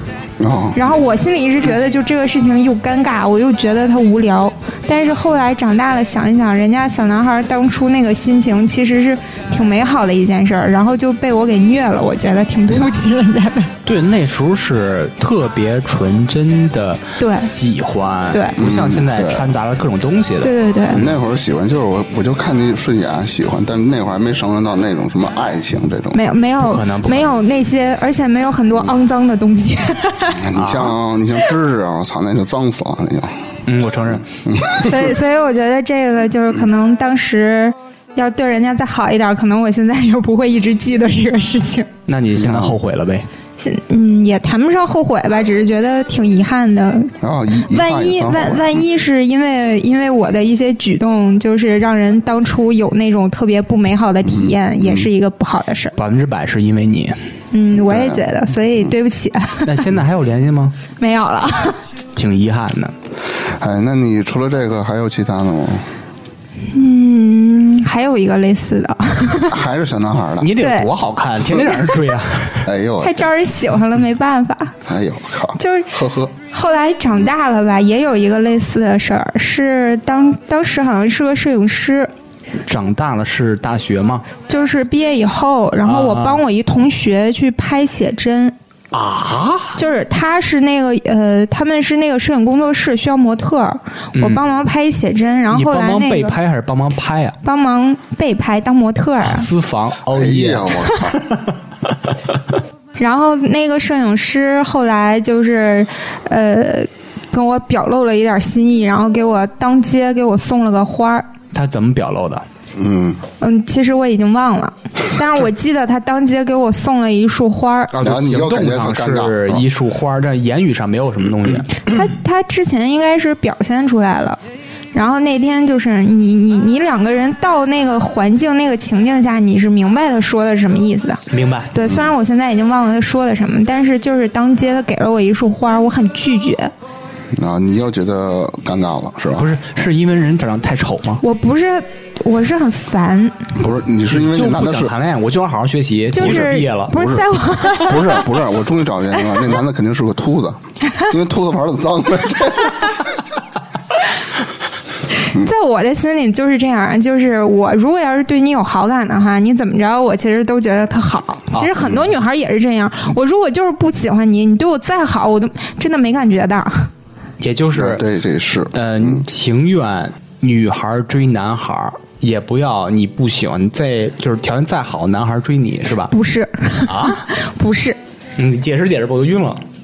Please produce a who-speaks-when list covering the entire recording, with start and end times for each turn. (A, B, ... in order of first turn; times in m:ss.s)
0:00.4-0:00.8 A
0:00.8-0:13.7 B
0:13.8-0:20.5 C
0:17.2-0:17.5 B
0:18.3-0:18.6 B
0:18.6-0:19.5 A
0:20.4-0:21.0 B
0:20.9-0:26.2 A
0:26.1-0:30.5 B
0:26.6-0:27.3 C
0:30.4-0:33.4 A
0:30.6-0:31.0 C
0:33.7-0:34.2 C
0:34.3-0:35.1 A
0:34.8-0:41.9 B
0:42.1-0:43.3 C
0:42.4-0:42.8 A
0:43.6-0:56.0 B
0:47.2-0:48.8 A
0:54.2-0:55.1 A
0:56.0-0:57.2 C
0:57.5-0:59.9 B
0:57.8-0:58.2 A
0:59.6-1:00.8 C
1:01.0-1:01.8 B
1:02.2-1:02.9 C
1:03.6-1:05.9 A
1:06.7-1:09.6 B
1:09.5-1:10.5 A
1:10.4-1:12.7 C
1:10.6-1:10.9 B
1:12.6-1:13.3 A
1:13.0-1:14.8 B
1:14.8-1:16.3 A
1:15.6-1:22.1 B
1:22.7-1:24.2 C
1:24.5-1:28.6 B
1:25.8-1:26.4 C
1:28.9-1:29.8 C
1:29.8-1:36.4 B
1:34.2-1:34.4 C
1:35.5-1:37.4 C
1:37.4-1:39.5 B
1:39.2-1:41.5 C
1:40.1-1:41.2 A
1:43.0-1:51.3 B
1:51.5-1:52.4 C
1:52.8-1:53.2 A
1:53.4-1:57.9 B
1:57.9-2:01.8 C
1:58.0-1:59.6 A
2:01.8-2:04.4 B
2:04.9-2:16.7 B
2:11.3-2:11.7 C
2:17.4-2:19.5 A
2:19.4-2:21.2 C
2:21.2-2:23.5 B
2:23.6-2:24.9 A
2:24.1-2:27.1 C
2:26.1-2:28.2 B
2:27.0-2:33.0 A
2:35.2-2:46.9 B
2:47.4-2:48.0 C
2:47.7-2:49.2 A
2:48.7-2:56.1 C
2:56.1-2:58.0 B
2:56.9-2:57.2 C
2:58.4-2:59.6 C